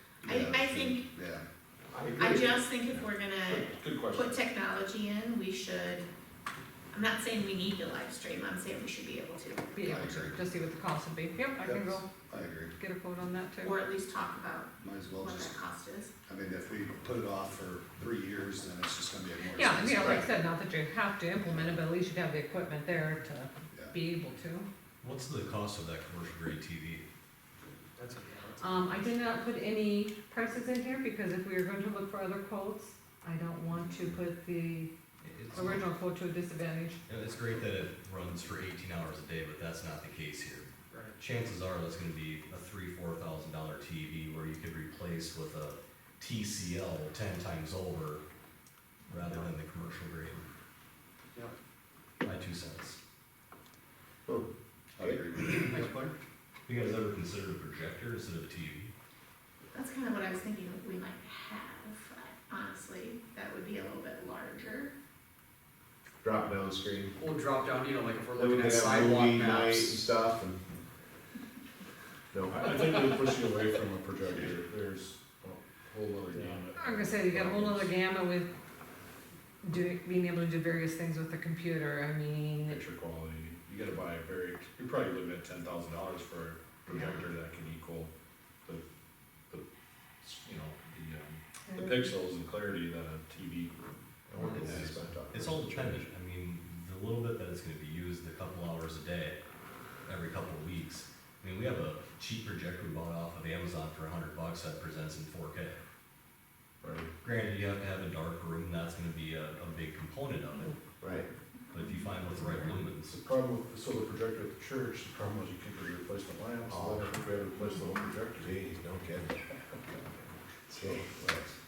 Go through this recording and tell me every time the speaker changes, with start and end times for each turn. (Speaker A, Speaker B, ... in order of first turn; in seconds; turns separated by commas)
Speaker A: 0.2-1.1, Speaker B: 0.2-1.4, Speaker C: 2.1-4.3, Speaker A: 2.1-6.1, Speaker A: 6.9-9.7, Speaker D: 9.7-12.1, Speaker B: 9.9-10.2, Speaker E: 9.9-10.3, Speaker B: 11.6-12.7, Speaker D: 12.8-13.8, Speaker A: 13.6-16.1, Speaker B: 14.8-15.6, Speaker B: 16.2-20.3, Speaker D: 19.5-24.7, Speaker B: 21.5-21.8, Speaker E: 25.0-27.0, Speaker F: 27.9-29.2, Speaker D: 28.6-34.9, Speaker E: 35.2-35.8, Speaker D: 35.5-37.0, Speaker E: 37.1-48.2, Speaker F: 40.9-41.2, Speaker E: 49.1-50.5, Speaker E: 52.2-53.0, Speaker E: 55.0-56.1, Speaker G: 55.0-55.2, Speaker E: 56.6-58.9, Speaker A: 59.7-64.9, Speaker G: 66.2-67.2, Speaker F: 67.2-70.0, Speaker G: 68.3-70.6, Speaker G: 72.3-72.7, Speaker C: 72.4-77.9, Speaker F: 76.3-76.6, Speaker D: 76.8-78.5, Speaker D: 79.6-82.8, Speaker C: 82.7-88.1, Speaker C: 90.2-93.7, Speaker D: 91.7-92.0, Speaker C: 94.3-95.1, Speaker G: 94.3-95.7, Speaker E: 94.4-99.4, Speaker E: 100.0-105.8, Speaker C: 106.8-107.1, Speaker E: 107.2-110.7, Speaker G: 111.0-111.3, Speaker E: 111.7-113.2, Speaker A: 111.8-112.1, Speaker C: 113.1-118.6, Speaker G: 116.7-117.1, Speaker A: 117.6-118.0, Speaker G: 118.4-119.3, Speaker C: 120.7-121.1, Speaker G: 120.7-121.5